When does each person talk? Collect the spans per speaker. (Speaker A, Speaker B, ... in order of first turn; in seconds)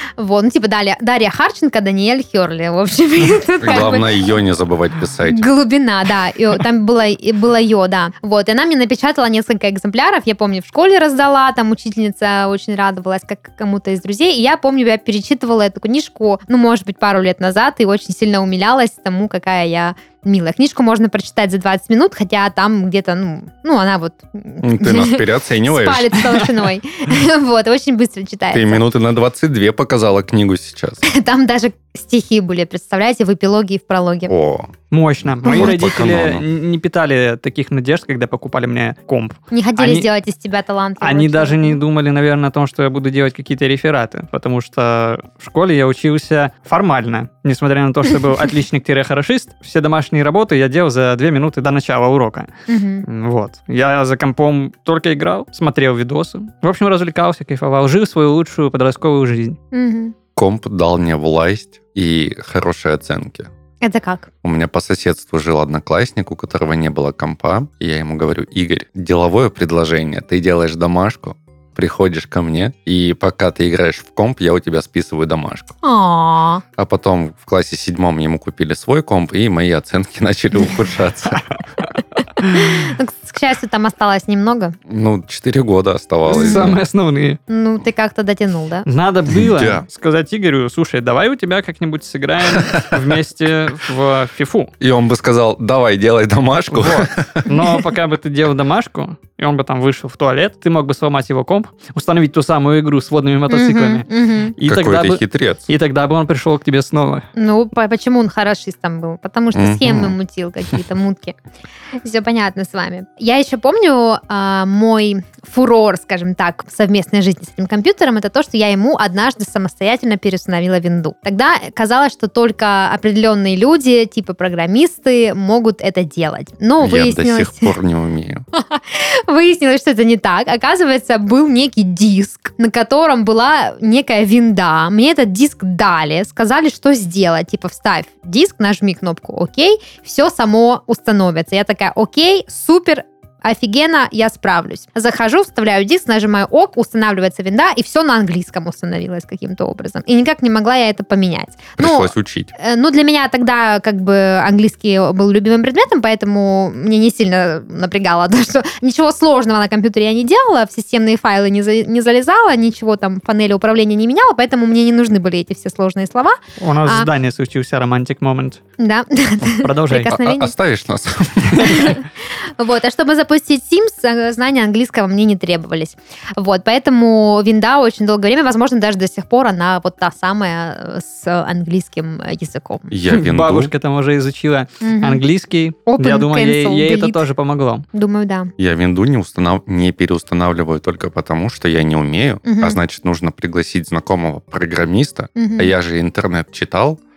Speaker A: 0.2-4.2, 5.3-28.8, 31.1-34.3, 35.5-35.8, 39.5-41.8, 52.7-53.0, 59.7-60.1, 63.8-64.3, 75.8-76.6, 82.5-84.8, 86.3-86.7, 87.5-88.9, 103.5-104.6, 107.4-111.4, 112.0-127.8, 128.5-167.1, 168.8-170.5, 171.6-172.1, 172.6-182.9, 184.8-185.2, 185.9-187.2, 187.9-188.5, 192.4-192.8, 195.4-195.7
Speaker B: 3.6-5.5, 24.6-26.4, 28.5-31.1, 34.3-34.7, 35.4-36.5, 60.4-63.5, 64.4-75.7, 76.8-81.5, 84.9-86.8, 89.3-89.8, 92.5-92.9, 94.8-97.5, 104.6-105.7, 109.5-110.2, 126.8-128.4, 151.8-152.5, 170.1-172.0, 182.9-183.7, 188.6-197.0
Speaker C: 34.9-40.1, 41.0-52.5, 53.0-59.6, 86.3-87.4, 88.9-94.7, 96.7-107.3, 166.6-168.6, 169.5-170.1, 183.1-187.9